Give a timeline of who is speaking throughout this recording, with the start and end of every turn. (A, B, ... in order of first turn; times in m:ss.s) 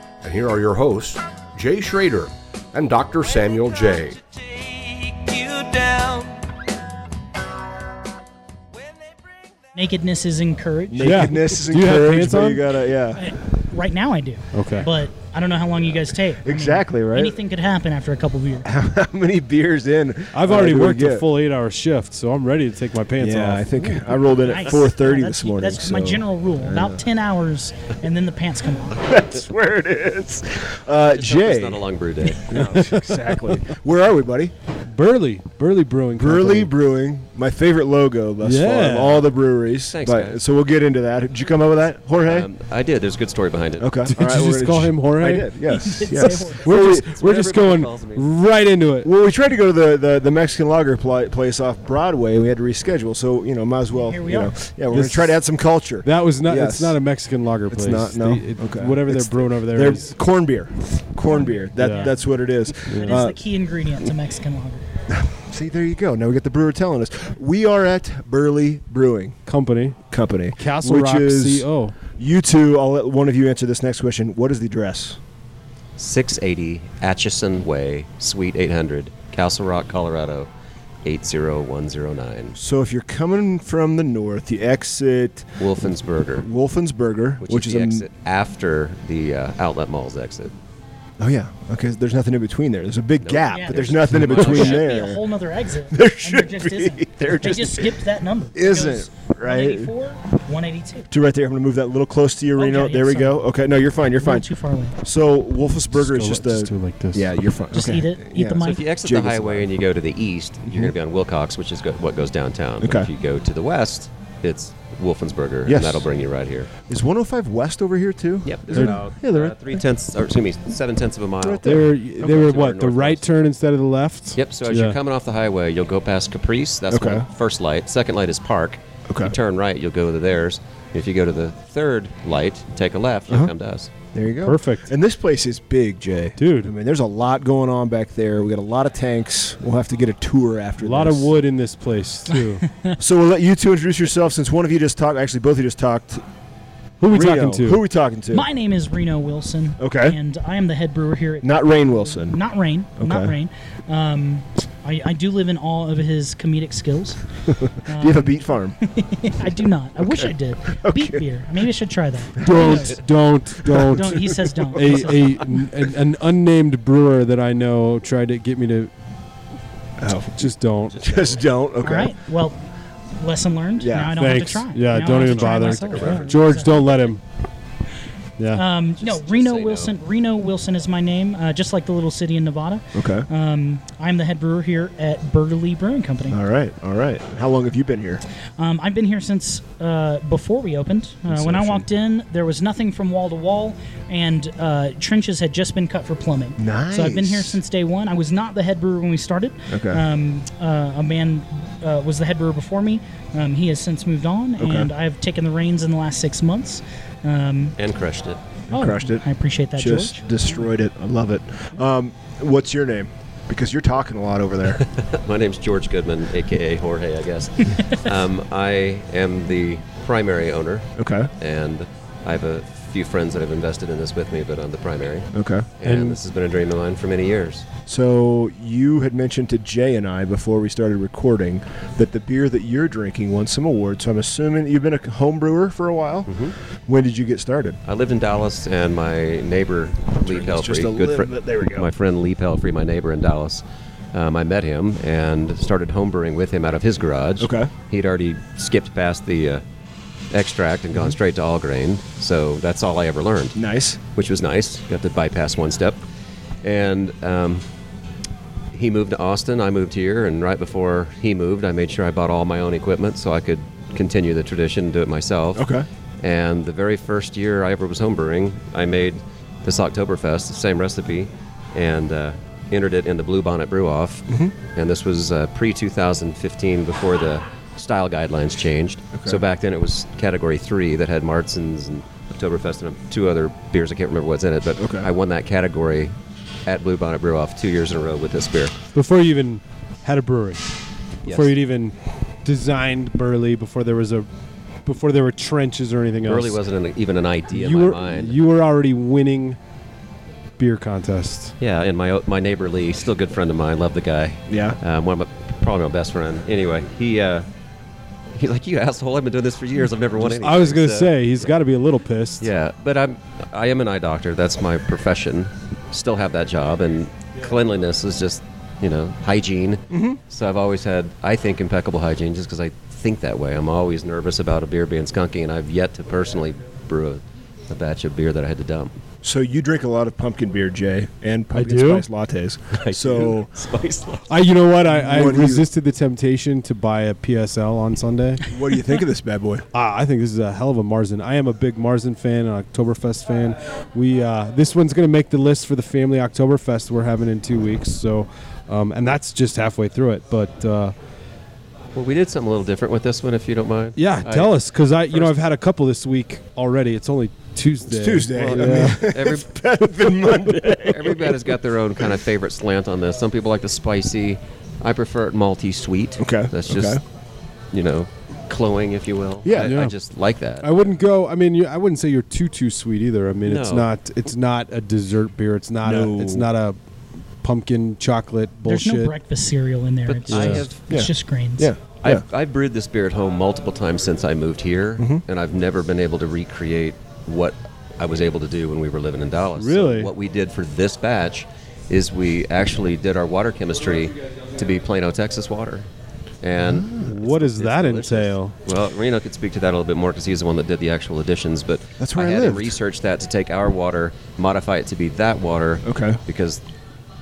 0:00.2-0:06.3 A
0:09.7-0:11.4 B
0:10.9-0:13.3 C
0:11.0-0:12.7 D
0:13.2-0:18.7 B
0:14.5-0:14.9 D
0:16.4-0:17.4 C
0:18.6-0:21.2 C
0:20.3-0:24.0 D
0:23.2-0:27.0 C
0:23.8-0:29.1 B
0:29.0-0:34.5 C
0:31.0-0:32.9 E
0:32.7-0:33.3 D
0:34.9-0:36.7 D
0:36.2-0:42.5 C
0:38.4-0:39.3 D
0:39.9-0:40.4 E
0:42.2-0:44.1 E
0:43.8-0:47.0 C
0:44.1-0:45.5 D
0:45.7-0:46.6 B
0:46.4-0:49.1 D
0:46.6-0:48.3 E
0:49.0-0:57.0 C
0:53.9-0:54.5 B
0:54.9-0:55.4 D
0:56.0-1:00.2 D
0:57.7-1:03.4 C
1:01.2-1:02.1 B
1:01.8-1:02.1 D
1:02.9-1:03.3 D
1:02.9-1:04.8 B
1:05.1-1:09.4 C
1:09.4-1:10.0 D
1:10.1-1:15.2 C
1:10.6-1:11.9 D
1:16.0-1:20.5 E
1:21.0-1:22.6 E
1:22.6-1:25.5 C
1:25.6-1:26.5 E
1:26.4-1:28.0 C
1:27.4-1:30.5 E
1:31.2-1:35.3 C
1:33.2-1:34.9 E
1:33.5-1:41.1 B
1:34.1-1:34.5 D
1:35.9-1:38.0 C
1:38.5-1:39.9 C
1:41.1-1:44.4 C
1:42.6-1:43.4 B
1:44.2-1:45.0 B
1:45.0-1:49.7 C
1:45.9-1:47.4 D
1:47.7-1:48.8 B
1:48.6-1:56.7 E
1:52.8-1:53.1 C
1:55.6-1:56.0 C
1:56.9-1:59.1 C
1:58.4-2:03.2 E
1:58.7-1:59.5 D
2:01.4-2:01.9 C
2:01.6-2:05.0 D
2:04.4-2:13.9 E
2:06.9-2:07.2 C
2:09.1-2:09.3 C
2:14.1-2:21.3 C
2:14.4-2:14.9 D
2:16.4-2:16.7 D
2:20.8-2:22.6 D
2:22.3-2:23.0 B
2:23.0-2:26.2 C
2:27.0-2:27.8 D
2:27.1-2:28.5 C
2:28.3-2:37.2 B
2:29.8-2:30.2 C
2:31.4-2:32.4 C
2:33.0-2:33.3 C
2:37.5-2:38.8 C
2:37.8-2:43.0 B
2:40.0-2:41.2 C
2:42.4-2:43.0 C
2:42.4-2:48.9 D
2:43.5-2:45.0 C
2:43.7-2:45.4 B
2:50.0-2:52.1 C
2:50.4-2:51.0 D
2:50.9-2:51.5 E
2:51.8-2:52.6 B
2:53.2-2:57.1 B
2:53.8-2:54.2 C
2:54.2-2:57.2 D
2:55.1-2:56.5 E
2:58.4-2:58.6 D
2:58.5-3:06.4 B
2:59.0-2:59.9 E
3:02.9-3:03.3 C
3:06.3-3:08.2 C
3:08.6-3:27.8 B
3:11.3-3:11.8 C
3:16.6-3:17.6 C
3:19.7-3:20.0 C
3:24.6-3:24.9 C
3:27.8-3:28.4 E
3:28.7-3:29.2 C
3:28.7-3:30.2 B
3:29.8-3:34.8 C
3:34.8-3:47.7 E
3:41.0-3:41.3 C
3:45.3-3:45.6 C
3:45.8-3:46.2 D
3:47.8-3:56.3 C
3:56.3-3:56.5 E
3:56.9-3:57.8 C
3:57.8-4:09.6 E
4:00.2-4:01.9 C
4:07.4-4:07.7 C
4:10.3-4:13.6 E
4:13.6-4:14.0 C
4:14.1-4:16.0 E
4:16.6-4:17.6 E
4:18.7-4:46.1 E
4:25.6-4:25.8 C
4:39.2-4:39.4 C
4:44.8-4:45.1 C
4:46.7-4:48.7 E
4:48.9-4:50.7 D
4:51.2-4:51.5 E
4:51.2-4:54.3 D
4:54.8-4:56.6 D
4:56.2-4:58.4 E
4:57.5-4:59.6 D
5:00.6-5:01.5 D
5:01.6-5:07.5 E
5:04.5-5:04.8 C
5:08.3-5:11.5 E
5:10.2-5:12.5 D
5:12.4-5:28.9 E
5:19.9-5:20.2 C
5:29.2-5:33.5 C
5:31.5-5:32.0 D
5:32.7-5:34.3 E
5:34.3-5:38.4 D
5:34.9-5:35.6 C
5:38.4-5:39.6 C
5:39.7-5:50.9 D
5:51.9-5:54.5 E
5:54.0-5:59.2 D
5:57.9-6:01.5 C
5:58.3-6:07.0 E
6:06.2-6:07.0 C
6:07.7-6:10.8 E
6:09.4-6:09.7 C
6:09.6-6:09.9 D
6:10.6-6:16.8 D
6:13.4-6:13.9 E
6:15.8-6:16.5 C
6:17.4-6:19.1 D
6:18.6-6:21.7 B
6:20.1-6:20.8 E
6:20.3-6:20.7 D
6:20.9-6:22.2 C
6:22.0-6:35.8 E
6:29.6-6:30.1 D
6:36.4-6:46.6 E
6:36.6-6:37.1 C
6:37.0-6:38.5 D
6:42.0-6:42.8 C
6:45.8-6:46.2 C